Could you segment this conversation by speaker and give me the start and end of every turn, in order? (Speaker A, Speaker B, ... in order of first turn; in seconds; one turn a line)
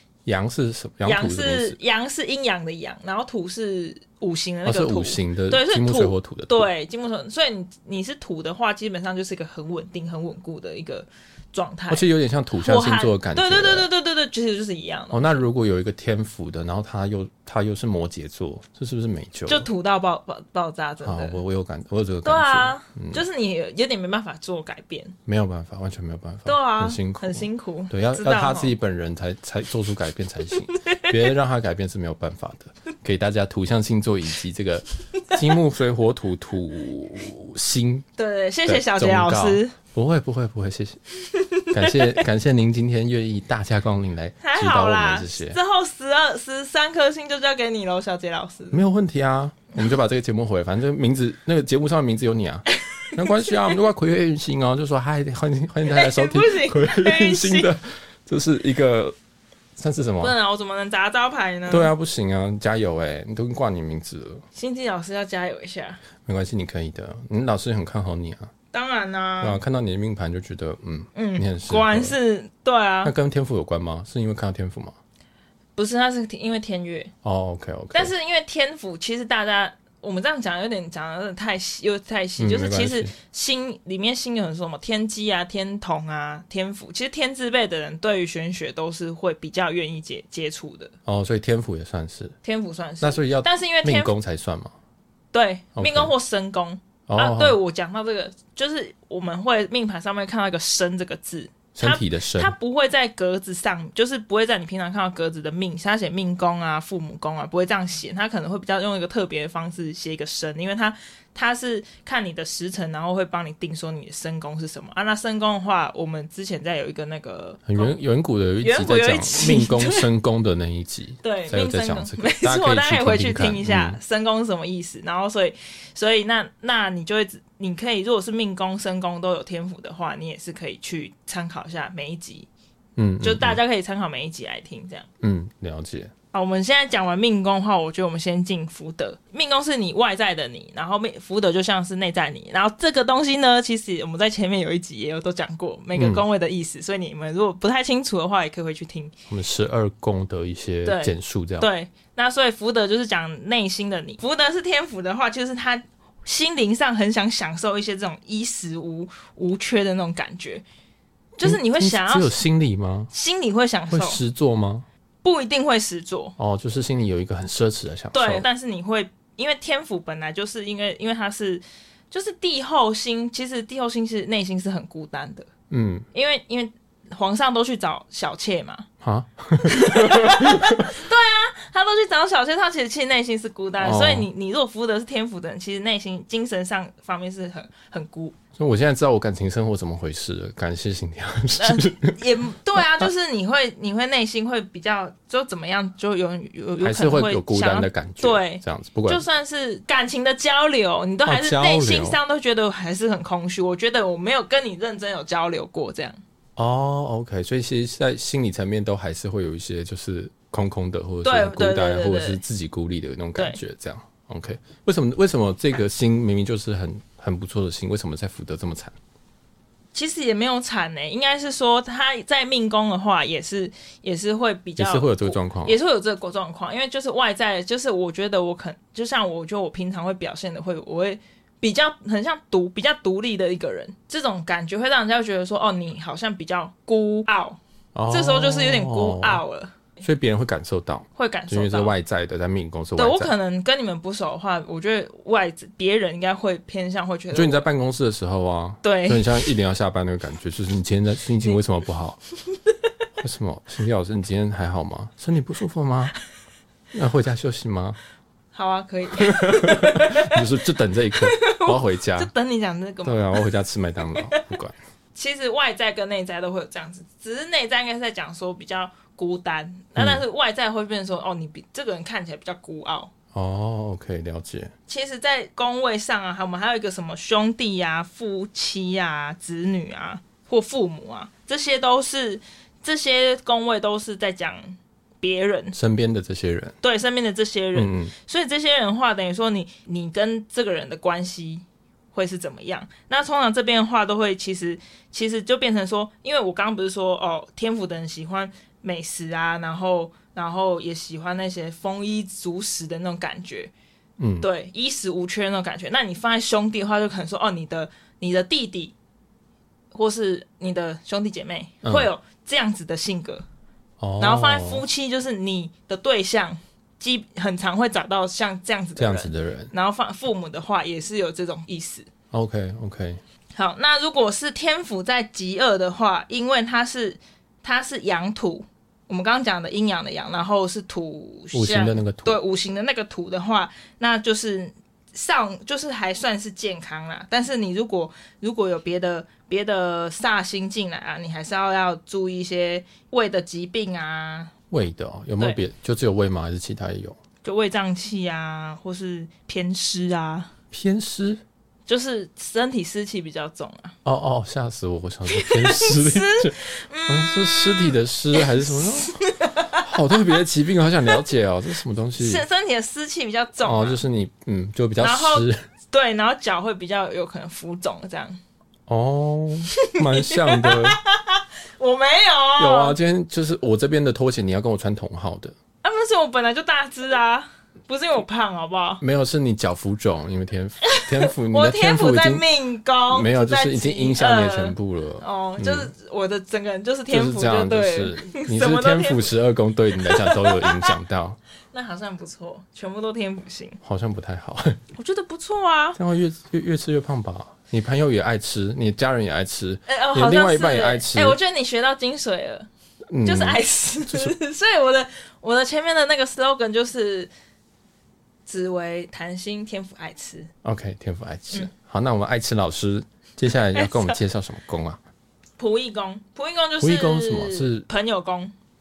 Speaker A: 0.2-1.8
Speaker B: 1.0-12.1
Speaker A: 4.6-6.7
Speaker A: 11.9-13.9
Speaker B: 12.6-15.4
Speaker A: 15.1-19.7
Speaker B: 19.5-21.4
Speaker A: 21.0-23.2
Speaker B: 22.2-25.1
Speaker A: 25.2-38.0
Speaker B: 26.4-28.7
Speaker B: 30.7-31.2
Speaker B: 38.2-39.7
Speaker A: 38.6-41.0
Speaker B: 41.2-42.2
Speaker A: 41.7-45.6
Speaker B: 44.4-48.8
Speaker A: 48.7-59.1
Speaker B: 53.1-53.8
Speaker B: 55.9-57.7
Speaker A: 59.8-60.3
Speaker B: 60.2-61.9
Speaker A: 61.7-64.4
Speaker B: 64.5-66.0
Speaker A: 66.2-68.5
Speaker B: 68.7-69.6
Speaker A: 69.4-72.2
Speaker B: 71.1-73.1
Speaker A: 73.0-75.0
Speaker B: 75.8-77.1
Speaker A: 77.2-78.1
Speaker B: 77.9-90.9
Speaker A: 82.4-83.1
Speaker A: 91.0-92.3
Speaker B: 92.4-94.1
Speaker A: 93.0-94.7
Speaker B: 95.3-118.0
Speaker A: 95.8-96.1
Speaker A: 97.1-97.6
Speaker A: 101.7-102.5
Speaker A: 117.7-124.0
Speaker B: 118.6-120.1
Speaker B: 121.2-132.5
Speaker A: 133.0-133.6
Speaker B: 133.2-135.1
Speaker A: 135.2-136.1
Speaker B: 136.3-149.1
Speaker A: 145.9-146.2
Speaker A: 149.3-151.7
Speaker B: 150.8-160.6
Speaker B: 161.4-162.4
Speaker A: 161.4-163.1
Speaker B: 163.1-164.2
Speaker A: 163.9-164.8
Speaker B: 165.2-166.3
Speaker A: 166.4-168.4
Speaker B: 168.1-175.5
Speaker A: 175.7-176.1
Speaker B: 176.1-178.9
Speaker A: 179.0-180.9
Speaker B: 179.6-188.4
Speaker A: 183.8-184.3
Speaker A: 188.6-192.2
Speaker B: 191.6-206.2
Speaker A: 192.8-193.1
Speaker A: 196.8-199.2
Speaker A: 201.2-202.2
Speaker A: 206.6-218.9
Speaker B: 211.2-212.4
Speaker B: 219.9-239.8
Speaker A: 224.8-225.8
Speaker A: 237.9-239.4
Speaker A: 240.0-243.3
Speaker B: 241.2-241.9
Speaker B: 242.9-247.7
Speaker A: 247.3-252.2
Speaker B: 248.8-249.5
Speaker A: 253.2-256.1
Speaker A: 256.9-258.0
Speaker B: 258.5-260.4
Speaker A: 259.2-262.3
Speaker B: 261.1-263.5
Speaker A: 263.0-264.7
Speaker B: 264.1-264.4
Speaker B: 265.1-273.1
Speaker A: 269.9-270.2
Speaker A: 273.3-274.7
Speaker B: 274.9-285.8
Speaker A: 285.7-286.8
Speaker B: 286.8-303.7
Speaker A: 287.7-288.1
Speaker A: 304.2-304.5
Speaker B: 304.4-308.9
Speaker B: 309.9-313.4
Speaker A: 311.8-312.1
Speaker A: 314.0-314.8
Speaker B: 314.2-322.1
Speaker A: 318.9-319.7
Speaker A: 322.3-323.2
Speaker B: 323.5-344.5
Speaker A: 331.5-332.4
Speaker A: 344.7-347.2
Speaker B: 347.4-350.5
Speaker A: 350.7-351.4
Speaker B: 351.9-353.9
Speaker A: 354.0-359.1
Speaker B: 355.3-360.2
Speaker A: 359.8-362.4
Speaker B: 362.2-364.0
Speaker A: 363.6-365.6
Speaker B: 365.0-368.4
Speaker A: 368.9-371.0
Speaker B: 369.8-373.0
Speaker A: 372.6-375.6
Speaker B: 375.8-379.0
Speaker A: 379.0-382.4
Speaker B: 380.9-389.3
Speaker A: 383.1-385.9
Speaker A: 387.1-391.4
Speaker B: 389.9-390.9
Speaker B: 391.7-393.8
Speaker A: 393.8-394.8
Speaker B: 394.9-396.0
Speaker A: 396.0-401.4
Speaker B: 399.9-402.7
Speaker A: 403.1-404.3
Speaker B: 403.2-407.3
Speaker B: 408.4-410.5
Speaker A: 410.6-415.0
Speaker B: 413.7-414.2
Speaker B: 415.6-418.5
Speaker A: 416.8-417.9